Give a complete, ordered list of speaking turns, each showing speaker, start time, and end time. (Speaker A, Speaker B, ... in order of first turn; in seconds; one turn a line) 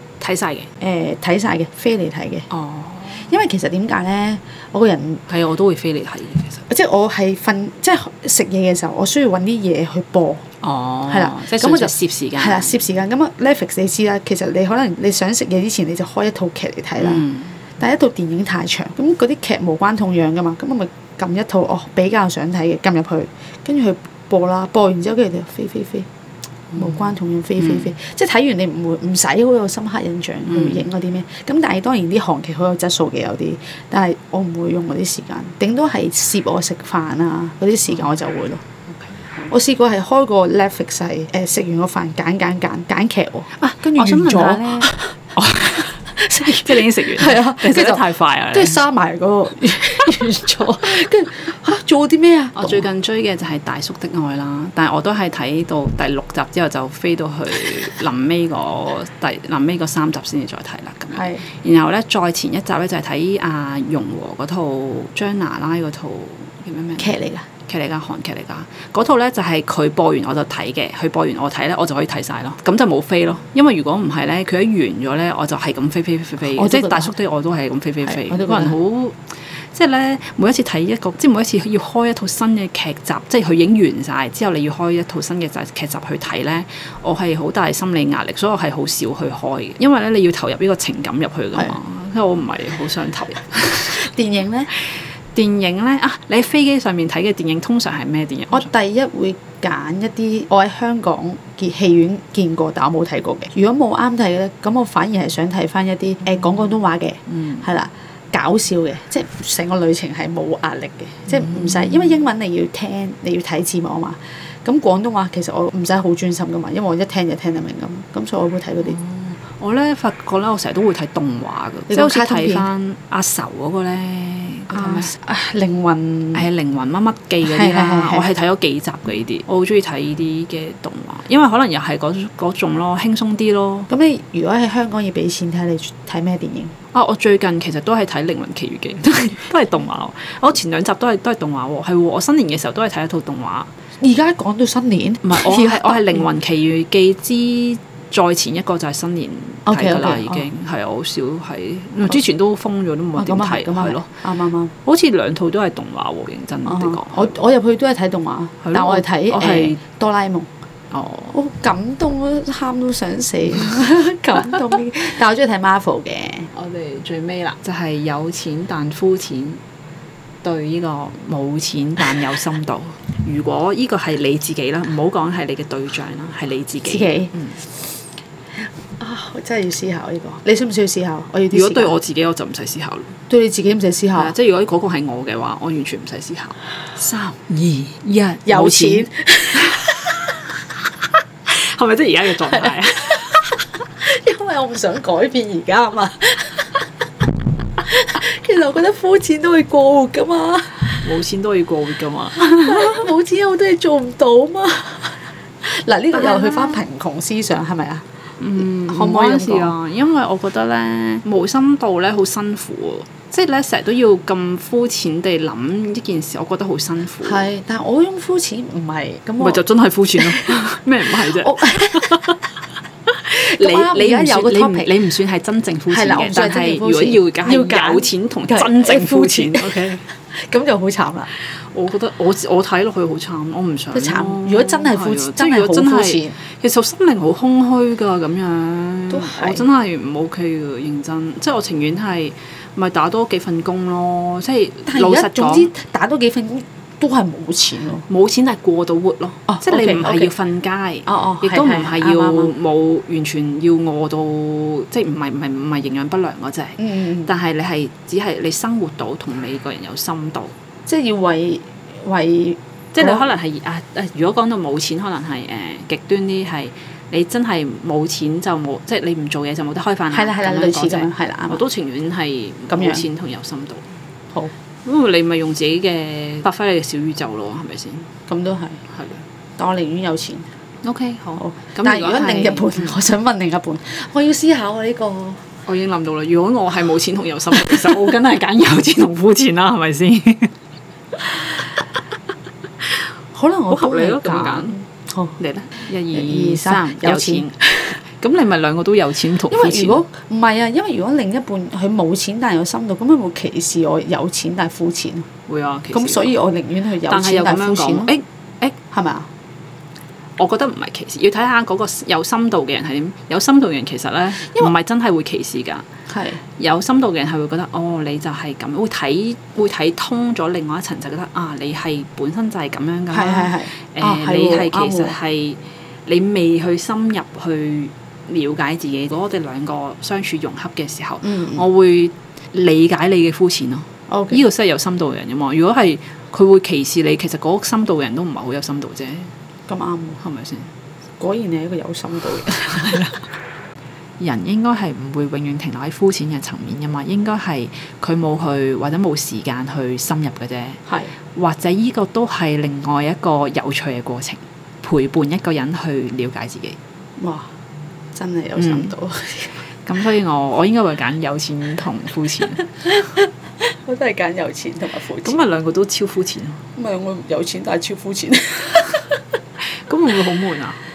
Speaker A: 0.2-0.7
Speaker B: 0.8-2.5
Speaker A: 2.5-3.3
Speaker B: 3.1-5.2
Speaker A: 5.3-6.6
Speaker B: 6.7-10.4
Speaker A: 10.6-12.8
Speaker B: 11.1-17.2
Speaker A: 17.0-17.6
Speaker B: 17.8-26.1
Speaker B: 26.7-38.6
Speaker A: 27.6-27.9
Speaker A: 30.5-30.8
Speaker A: 38.9-39.4
Speaker B: 39.5-45.1
Speaker A: 43.6-48.8
Speaker B: 46.1-52.9
Speaker A: 52.5-67.1
Speaker B: 61.1-61.5
Speaker B: 67.0-67.5
Speaker A: 67.7-94.1
Speaker B: 76.4-77.1
Speaker B: 78.0-78.8
Speaker B: 93.9-94.7
Speaker A: 94.7-98.7
Speaker B: 98.5-119.0
Speaker A: 107.3-107.6
Speaker A: 111.3-112.2
Speaker A: 118.8-125.1
Speaker B: 121.9-122.7
Speaker B: 124.7-126.5
Speaker A: 126.3-133.9
Speaker B: 127.4-128.3
Speaker B: 133.9-136.7
Speaker A: 136.9-143.7
Speaker B: 144.0-146.3
Speaker A: 145.2-154.2
Speaker B: 149.7-150.5
Speaker B: 153.2-154.7
Speaker A: 154.8-157.3
Speaker B: 156.7-160.5
Speaker A: 158.6-159.8
Speaker A: 160.9-161.3
Speaker B: 161.3-166.5
Speaker A: 166.5-169.6
Speaker A: 170.4-177.6
Speaker B: 176.8-177.3
Speaker B: 179.0-182.0
Speaker A: 181.5-183.2
Speaker B: 183.3-184.3
Speaker A: 184.1-193.7
Speaker B: 188.4-190.0
Speaker B: 192.5-192.8
Speaker B: 194.0-196.8
Speaker B: 197.8-201.1
Speaker A: 201.0-203.1
Speaker B: 202.6-208.0
Speaker A: 206.1-206.8
Speaker A: 208.4-217.5
Speaker B: 208.6-209.7
Speaker B: 217.2-219.6
Speaker A: 219.4-222.4
Speaker B: 220.2-222.3
Speaker A: 223.1-230.0
Speaker B: 223.6-224.9
Speaker B: 225.9-231.3
Speaker A: 231.5-245.7
Speaker B: 233.9-236.3
Speaker B: 239.1-239.7
Speaker B: 244.9-248.0
Speaker A: 248.1-260.5
Speaker B: 249.5-250.3
Speaker B: 251.1-252.5
Speaker B: 256.8-257.3
Speaker B: 260.9-263.3
Speaker A: 262.9-273.8
Speaker B: 270.1-271.6
Speaker B: 272.7-273.0
Speaker A: 274.8-278.1
Speaker B: 278.3-278.8
Speaker A: 278.9-279.2
Speaker B: 279.6-280.5
Speaker A: 280.8-283.0
Speaker B: 281.4-285.4
Speaker A: 285.7-290.5
Speaker A: 291.3-291.8
Speaker B: 293.3-295.4
Speaker A: 293.7-294.8
Speaker A: 295.4-300.0
Speaker B: 296.1-297.9
Speaker B: 299.5-305.3
Speaker A: 305.5-306.3
Speaker B: 305.9-308.1
Speaker A: 307.1-308.8
Speaker B: 308.9-309.3
Speaker A: 310.4-315.9
Speaker B: 316.1-316.4
Speaker A: 316.6-339.3
Speaker B: 323.1-325.1
Speaker B: 331.2-331.6
Speaker B: 334.1-334.4
Speaker B: 339.7-340.2
Speaker A: 340.2-340.7
Speaker B: 341.2-343.0
Speaker A: 342.4-343.2
Speaker A: 344.2-350.8
Speaker B: 350.9-351.1
Speaker A: 351.3-356.8
Speaker B: 357.2-357.5
Speaker B: 358.1-359.6
Speaker A: 358.6-358.9
Speaker A: 359.9-362.8
Speaker B: 362.9-365.4
Speaker A: 365.2-366.6
Speaker B: 366.8-369.2
Speaker A: 369.8-370.8